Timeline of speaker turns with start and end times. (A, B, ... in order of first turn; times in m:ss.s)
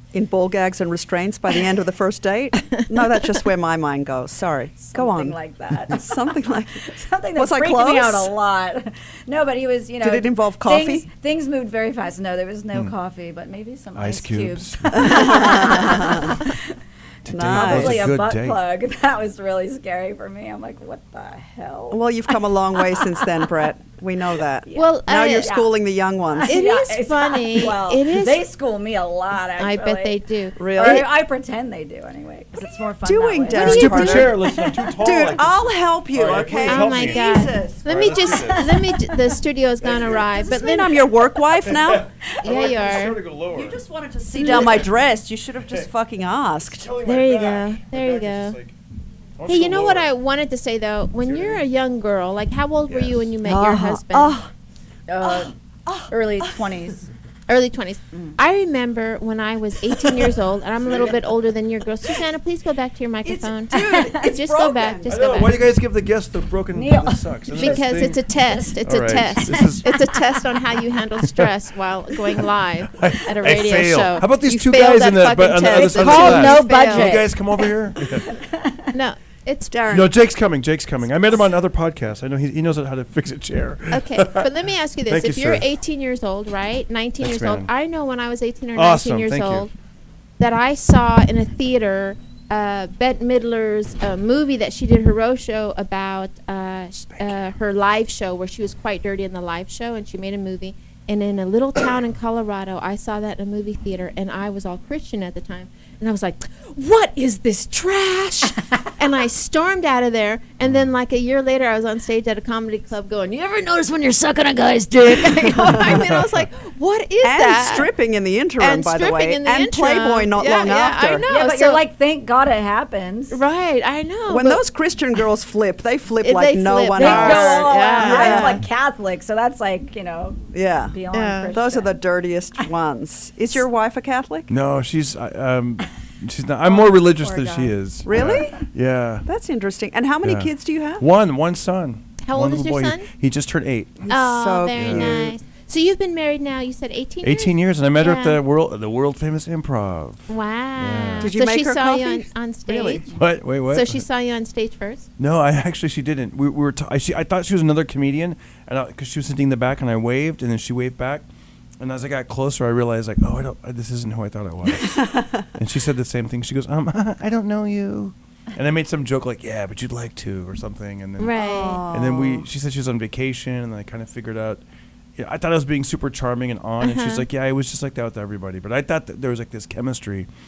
0:00.1-0:05.4 A
0:04.9-0:16.7 B
0:05.9-0:06.8 A
0:07.4-0:08.3 A
0:10.0-0:11.0 A
0:14.0-0:16.2 C
0:14.9-0:16.4 A
0:17.2-0:18.6 C
0:17.3-0:18.1 A
0:17.4-0:23.5 B
0:21.9-0:26.6 A
0:24.6-0:25.7 B
0:24.8-0:25.5 D
0:26.3-0:35.0 B
0:26.5-0:28.4 D
0:29.6-0:31.0 D
0:30.6-0:31.1 A
0:33.0-0:34.4 A
0:33.5-0:34.3 D
0:33.6-0:38.8 C
0:35.0-0:38.3 A
0:36.6-0:41.1 D
0:38.4-0:39.3 B
0:39.8-0:40.3 C
0:39.9-0:42.1 A
0:41.6-0:43.8 C
0:42.4-0:43.2 D
0:43.5-0:46.9 A
0:44.3-0:44.8 D
0:44.5-0:44.9 C
0:46.7-0:48.8 C
0:47.0-0:48.6 D
0:49.4-0:50.1 C
0:49.5-0:54.4 D
0:51.2-0:51.6 C
0:52.9-0:53.2 C
0:53.4-0:54.5 A
0:55.1-0:55.5 B
0:55.2-0:56.6 A
0:56.1-0:57.1 B
0:57.5-1:05.5 D
1:03.2-1:05.4 A
1:03.7-1:04.2 B
1:05.1-1:08.2 C
1:06.7-1:08.8 B
1:07.6-1:17.2 D
1:08.8-1:09.9 C
1:12.4-1:18.3 C
1:15.7-1:17.8 B
1:18.3-1:18.8 B
1:18.9-1:19.8 D
1:19.7-1:20.1 A
1:19.9-1:24.5 C
1:23.9-1:29.7 D
1:25.1-1:25.7 C
1:27.2-1:27.7 C
1:28.8-1:29.7 C
1:30.4-1:57.9 D
1:55.6-1:56.0 A
1:55.7-1:56.2 C
1:57.2-2:01.2 A
1:58.6-2:01.8 D
2:01.3-2:03.4 B
2:03.3-2:04.6 D
2:04.3-2:08.6 A
2:06.2-2:08.6 D
2:07.0-2:12.0 B
2:10.5-2:11.0 A
2:11.1-2:11.5 D
2:11.5-2:14.5 A
2:14.5-2:19.2 C
2:16.6-2:18.4 B
2:18.0-2:18.6 A
2:19.2-2:21.0 A
2:20.2-2:24.1 C
2:22.2-2:23.1 D
2:24.0-2:25.3 A
2:24.1-2:28.4 D
2:24.8-2:25.2 C
2:27.2-2:31.3 C
2:30.3-2:33.0 D
2:31.2-2:33.1 A
2:33.1-2:34.0 C
2:33.7-2:35.1 D
2:35.2-2:41.2 C
2:41.8-2:54.6 C
2:44.7-2:45.5 A
2:51.2-2:51.8 D
2:51.3-2:52.5 A
2:55.2-3:00.3 C
2:56.8-2:57.2 D